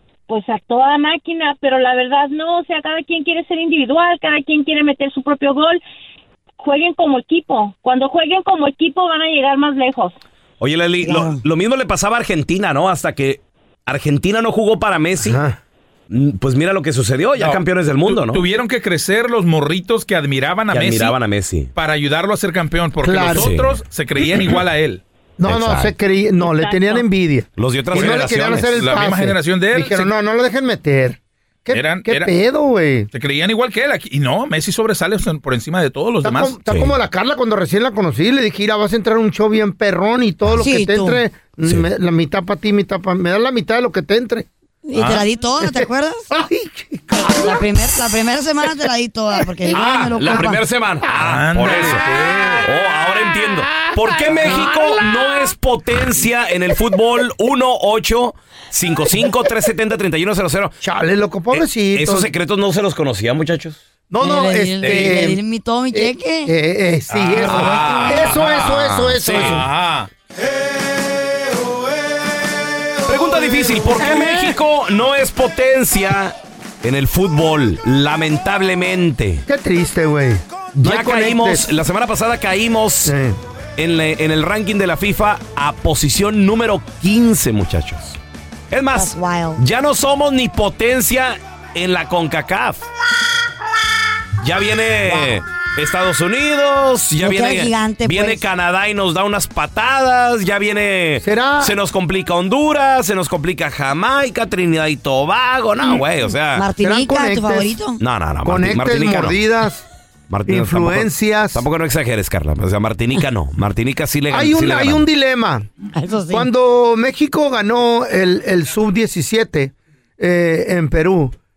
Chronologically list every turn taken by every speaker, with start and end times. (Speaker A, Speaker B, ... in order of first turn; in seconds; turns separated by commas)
Speaker A: 0.3-5.8, Speaker A: 6.6-10.2, Speaker B: 10.6-15.4, Speaker C: 11.0-11.4, Speaker D: 15.2-15.6, Speaker B: 16.1-18.4, Speaker E: 17.4-21.2, Speaker B: 20.7-21.7, Speaker E: 21.8-25.0, Speaker D: 23.0-23.5, Speaker B: 23.3-23.8, Speaker D: 25.4-33.1, Speaker B: 25.4-25.9, Speaker A: 26.4-27.0, Speaker B: 27.6-28.8, Speaker E: 27.9-30.1, Speaker E: 31.7-32.4, Speaker E: 33.1-36.6, Speaker D: 36.2-44.5, Speaker B: 36.7-36.9, Speaker C: 40.6-41.2, Speaker C: 44.9-46.3, Speaker E: 45.0-45.3, Speaker D: 45.6-47.6, Speaker C: 47.2-50.6, Speaker B: 49.7-60.8, Speaker E: 51.2-52.6, Speaker D: 60.8-62.3, Speaker B: 61.5-63.8, Speaker D: 64.1-65.4, Speaker C: 64.2-66.5, Speaker D: 65.9-69.7, Speaker E: 67.1-70.1, Speaker B: 67.4-68.5, Speaker C: 67.5-68.2, Speaker B: 69.2-69.6, Speaker B: 73.1-79.4, Speaker D: 74.0-74.6, Speaker D: 79.5-81.7, Speaker B: 80.8-83.2, Speaker D: 83.0-83.4, Speaker B: 83.8-88.2, Speaker B: 88.7-92.9, Speaker C: 88.9-89.6, Speaker B: 94.4-106.7, Speaker C: 95.1-95.3, Speaker C: 97.2-98.4, Speaker D: 101.2-101.7, Speaker C: 106.5-108.0, Speaker D: 106.8-107.8, Speaker B: 108.0-109.4, Speaker D: 108.5-109.8, Speaker B: 110.3-115.0, Speaker D: 110.5-111.7, Speaker D: 114.3-115.7, Speaker C: 115.9-116.5, Speaker D: 116.3-121.3